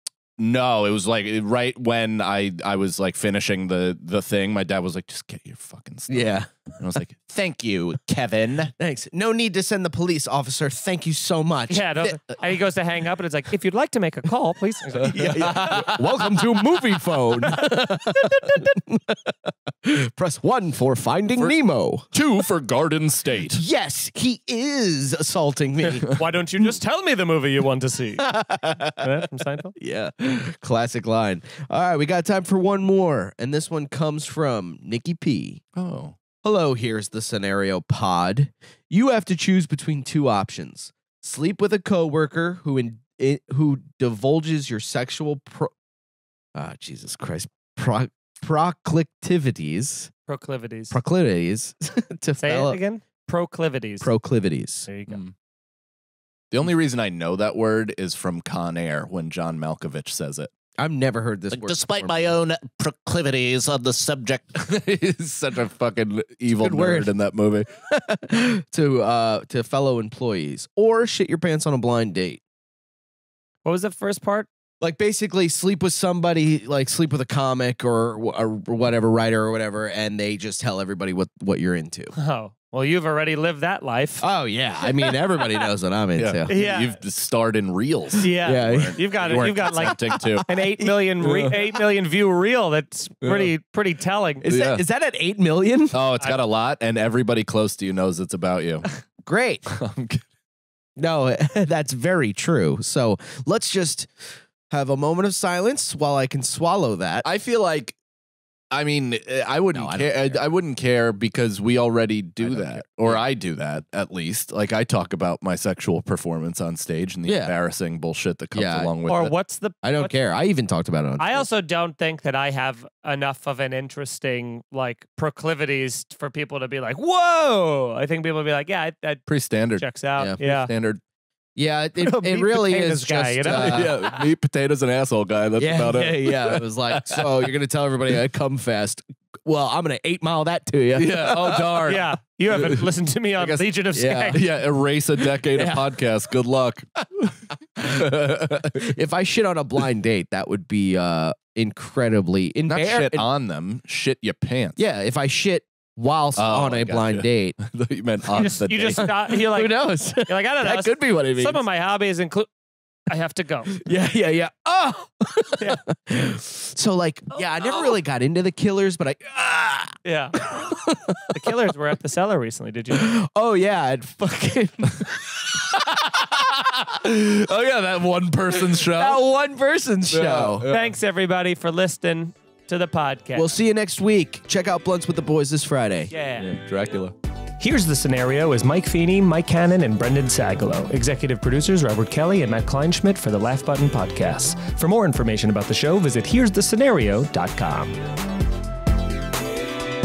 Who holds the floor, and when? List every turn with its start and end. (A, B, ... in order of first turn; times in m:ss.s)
0:00.4-0:08.7 A
0:06.1-0:06.5 B
0:08.8-0:12.1 B
0:11.7-0:16.0 C
0:14.9-0:16.2 A
0:15.0-0:22.1 B
0:22.1-0:23.6 A
0:23.5-0:26.2 B
0:25.8-0:28.3 C
0:28.2-0:29.2 B
0:29.0-0:29.7 C
0:29.8-0:35.6 B
0:35.7-0:36.2 A
0:36.4-0:45.7 B
0:46.5-0:50.1 B
0:50.3-0:51.0 C
0:50.9-0:52.8 B
0:52.4-0:54.1 C
0:54.0-0:54.9 B
0:54.9-0:55.2 C
0:56.5-1:00.5 A
1:00.8-1:02.3 B
1:01.5-1:07.7 A
1:06.5-1:07.1 B
1:07.9-1:12.4 B
1:13.6-1:14.5 C
1:14.8-1:22.1 B
1:22.2-1:24.2 C
1:24.2-1:26.5 B
1:25.0-1:25.6 C
1:26.2-1:30.5 A
1:26.5-1:27.0 C
1:28.2-1:34.4 C
1:28.4-1:30.0 B
1:30.5-1:31.0 B
1:31.2-1:31.5 A
1:33.2-1:33.5 A
1:34.4-1:36.0 B
1:34.4-1:34.8 A
1:35.9-1:38.8 A
1:39.2-1:39.6 B
1:39.7-1:40.2 A
1:41.0-1:47.2 B
1:47.2-1:48.0 A
1:48.7-1:59.3 A
1:49.7-1:50.4 B
1:52.4-1:53.2 B
1:57.2-1:57.5 B
1:58.5-1:58.9 B
1:59.0-2:00.1 C
1:59.8-2:01.5 B
2:01.2-2:10.7 C
2:09.3-2:09.9 A
2:10.4-2:11.0 A
2:11.6-2:14.3 B
2:12.0-2:13.9 C
2:13.5-2:17.5 A
2:15.6-2:21.9 B
2:20.9-2:23.6 A
2:21.9-2:24.4 C
2:23.9-2:24.4 B
2:24.3-2:28.9 A
2:25.4-2:25.9 B
2:27.8-2:33.2 B
2:32.7-2:34.8 A
2:34.8-2:37.6 B
2:36.4-2:39.1 A
2:38.4-2:42.5 C
2:38.9-2:41.6 B
2:43.1-2:43.7 C
2:43.7-2:51.5 B
2:50.0-2:50.4 C
2:51.3-2:53.1 C
2:52.9-2:55.6 B
2:55.5-2:59.2 A
2:58.6-3:00.7 B
3:00.1-3:00.9 A
3:00.7-3:03.5 C
3:03.3-3:06.1 B
3:06.1-3:06.5 C
3:06.4-3:07.1 A
3:07.6-3:18.0 C